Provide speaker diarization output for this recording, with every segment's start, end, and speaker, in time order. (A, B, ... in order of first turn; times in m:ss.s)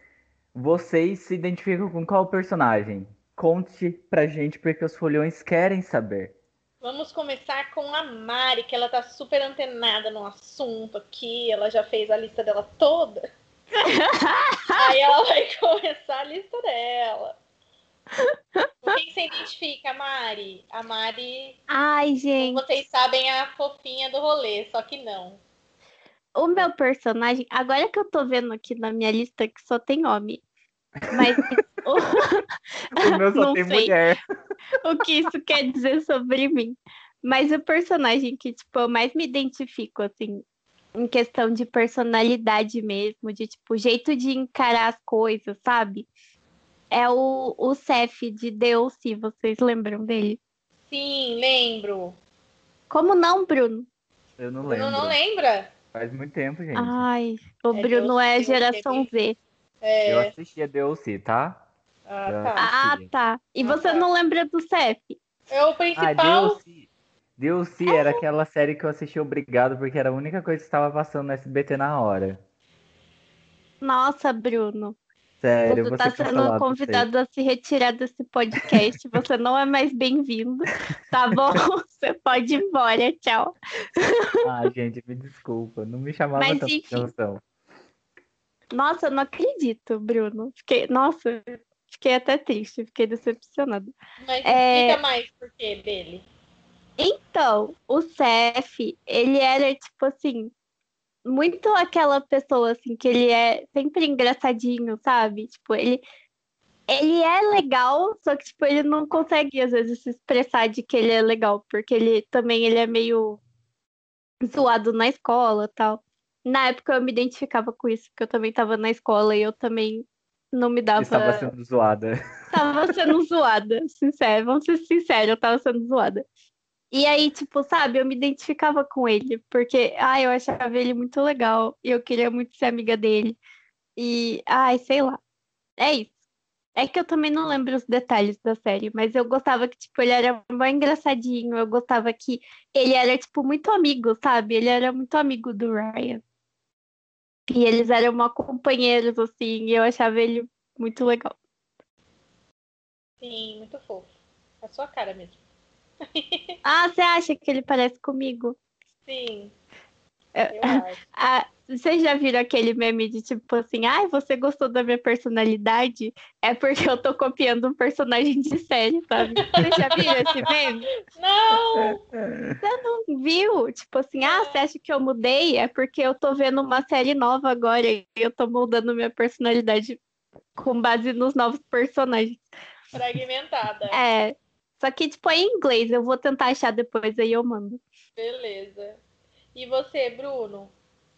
0:00.5-0:06.3 A
0:06.8-0:13.2 B
0:13.8-0:14.9 C
0:14.8-0:17.3 B
0:18.2-0:18.7 C
0:18.8-0:21.6 B
0:21.7-0:22.6 C
0:22.4-0:25.4 B
0:26.3-0:30.4 C
0:31.1-0:32.4 C
0:33.0-0:34.2 A
0:33.0-0:33.9 C
0:34.8-0:40.4 C
0:41.0-0:46.1 C
0:46.9-0:50.4 C
0:50.9-0:52.2 B
0:52.9-0:53.9 C
0:54.4-0:55.2 A
0:54.6-0:55.7 B
0:55.9-0:57.0 A
0:56.7-0:59.4 C
0:57.7-0:59.1 B
0:59.8-1:00.3 B
1:00.1-1:01.6 A
1:02.1-1:02.7 B
1:02.2-1:03.1 A
1:02.6-1:05.2 C
1:03.6-1:04.1 B
1:05.5-1:06.6 B
1:06.0-1:12.4 A
1:07.8-1:08.2 B
1:13.8-1:15.0 C
1:15.4-1:17.0 A
1:15.6-1:24.3 C
1:24.4-1:27.4 A
1:26.4-1:27.1 C
1:28.7-1:33.9 C
1:34.2-1:36.2 B
1:34.4-1:35.0 C
1:37.0-1:40.5 C
1:41.2-1:46.0 C
1:46.9-1:53.4 C
1:54.4-2:01.5 C
2:01.0-2:03.1 A
2:02.5-2:06.2 C
2:06.9-2:13.4 C
2:14.0-2:15.2 C
2:15.8-2:16.1 C
2:16.8-2:26.2 C
2:27.5-2:31.3 C
2:33.2-2:34.1 B
2:34.6-2:35.4 B
2:36.1-2:36.6 B
2:36.6-2:38.6 C
2:39.1-2:39.5 B
2:40.3-2:50.9 C
2:40.5-2:41.0 B
2:49.4-2:52.0 B
2:51.8-2:52.5 A
2:52.6-3:00.0 C
2:54.2-2:54.6 B
3:00.6-3:02.4 C
3:02.9-3:04.0 B
3:03.9-3:07.8 C
3:08.2-3:09.0 B
3:09.5-3:10.7 B